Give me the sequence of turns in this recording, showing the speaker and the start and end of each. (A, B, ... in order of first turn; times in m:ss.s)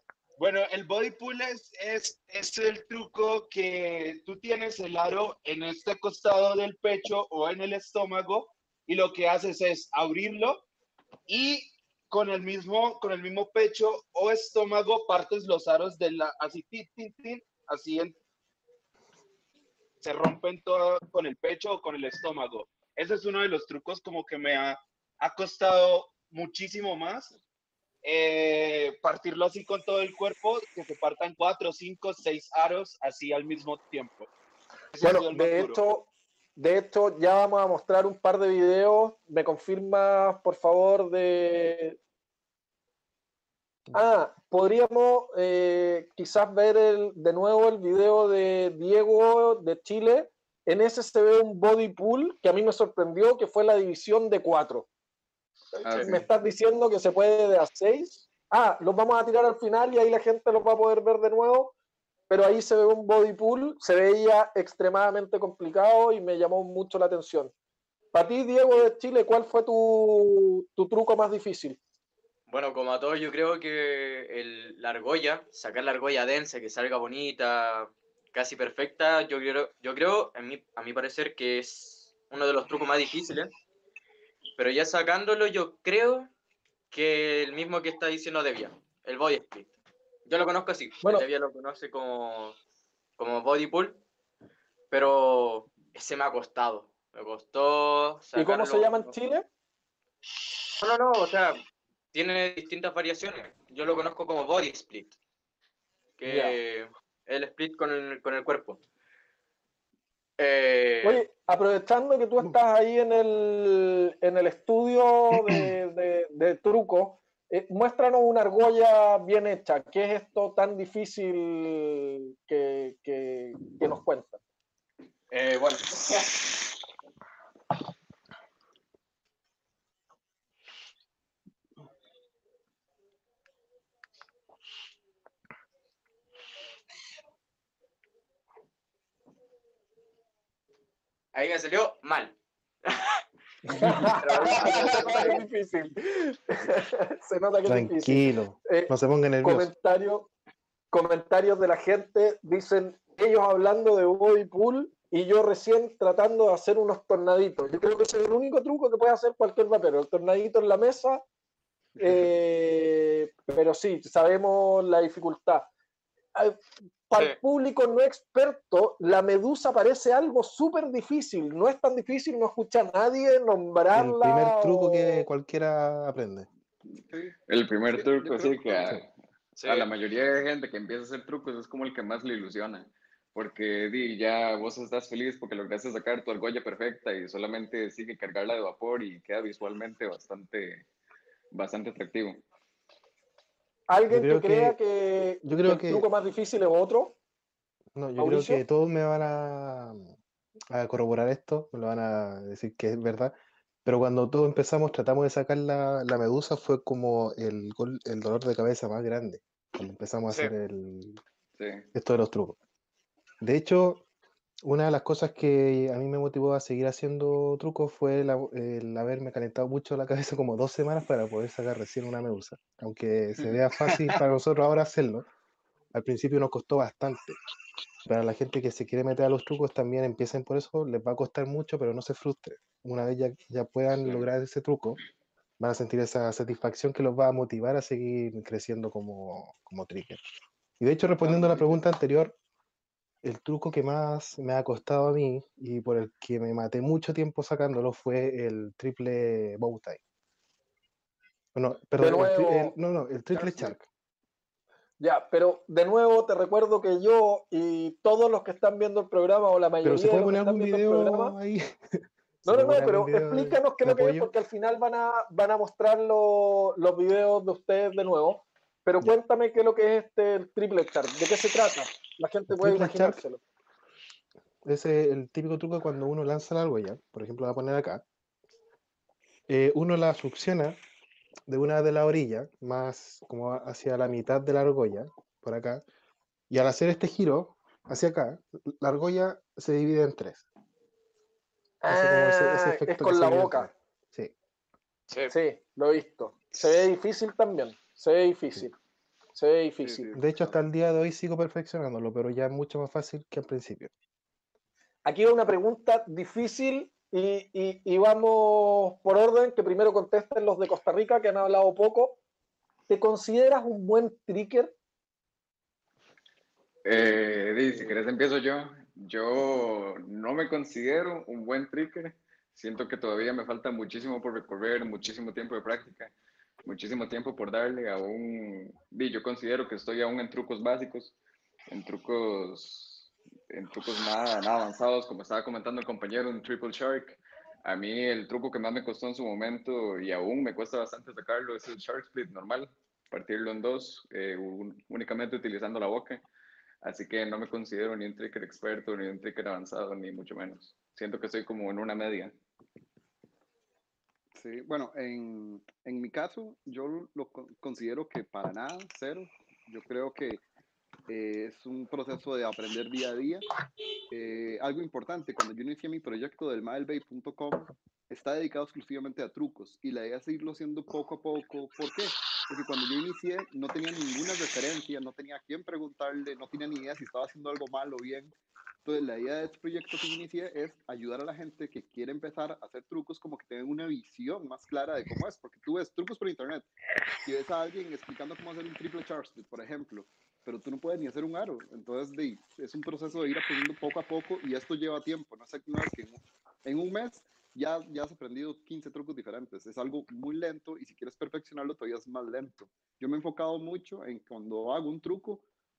0:00.4-0:10.6 A
0:11.3-0:18.2 A
0:20.0-0:27.3 A
0:28.0-0:34.3 A
0:34.9-0:35.8 A
0:35.0-0:42.0 B
0:43.9-0:54.9 B
0:55.8-0:56.1 C
0:55.8-0:56.2 D
0:55.9-1:01.7 B
1:02.3-1:07.5 B
1:08.1-1:11.8 B
1:12.5-1:23.5 C
1:24.6-1:26.3 C
1:26.9-1:29.7 C
1:30.3-1:32.6 C
1:33.2-1:34.0 C
1:34.9-1:39.1 C
1:38.3-1:39.4 B
1:40.8-1:41.6 C
1:42.1-1:45.2 C
1:46.2-1:48.8 C
1:46.2-1:46.6 B
1:50.4-1:51.2 C
1:51.0-2:04.4 B
2:05.3-2:06.3 C
2:21.3-2:23.2 C
2:23.7-2:28.9 B
2:23.8-2:25.4 C
2:24.7-2:25.1 A
2:27.6-2:29.7 E
2:29.4-2:30.3 B
2:30.9-2:41.2 B
2:42.0-2:45.7 B
2:46.3-2:55.2 B
2:53.9-2:56.5 E
2:57.1-2:59.0 F
2:57.5-3:10.9 D
2:59.6-2:59.9 C
3:11.5-3:12.4 D
3:13.9-3:17.1 B
3:14.1-3:14.8 E
3:15.4-3:16.0 E
3:18.0-3:20.1 E
3:18.2-3:18.6 B
3:20.7-3:31.2 E
3:31.6-3:31.8 D
3:31.9-3:32.6 E
3:33.4-3:34.0 E
3:34.6-3:45.3 E
3:43.9-3:44.2 A
3:45.9-3:47.4 E
3:48.1-3:55.0 E
3:55.6-4:00.2 E
4:00.8-4:02.3 E
4:03.2-4:10.0 E
4:11.5-4:13.8 E
4:12.0-4:12.8 B
4:13.3-4:13.7 F
4:15.0-4:21.3 B
4:19.8-4:24.3 E
4:22.4-4:33.4 B
4:32.5-4:33.2 E
4:34.6-4:38.0 E
4:39.5-4:40.8 E
4:41.5-4:45.8 E
4:46.5-4:50.4 E
4:51.8-4:53.7 B
4:51.9-4:54.3 E
4:55.3-4:58.7 B
4:59.3-5:00.1 B
4:59.8-5:00.6 F
5:00.1-5:03.9 E
5:05.0-5:12.2 B
5:12.9-5:14.7 B
5:16.8-5:26.1 D
5:16.9-5:18.0 F
5:26.6-5:31.1 D
5:31.7-5:46.2 D
5:46.8-5:52.4 D
5:54.3-6:00.4 F
6:01.1-6:03.5 F
6:04.1-6:26.7 F
6:27.2-6:45.4 F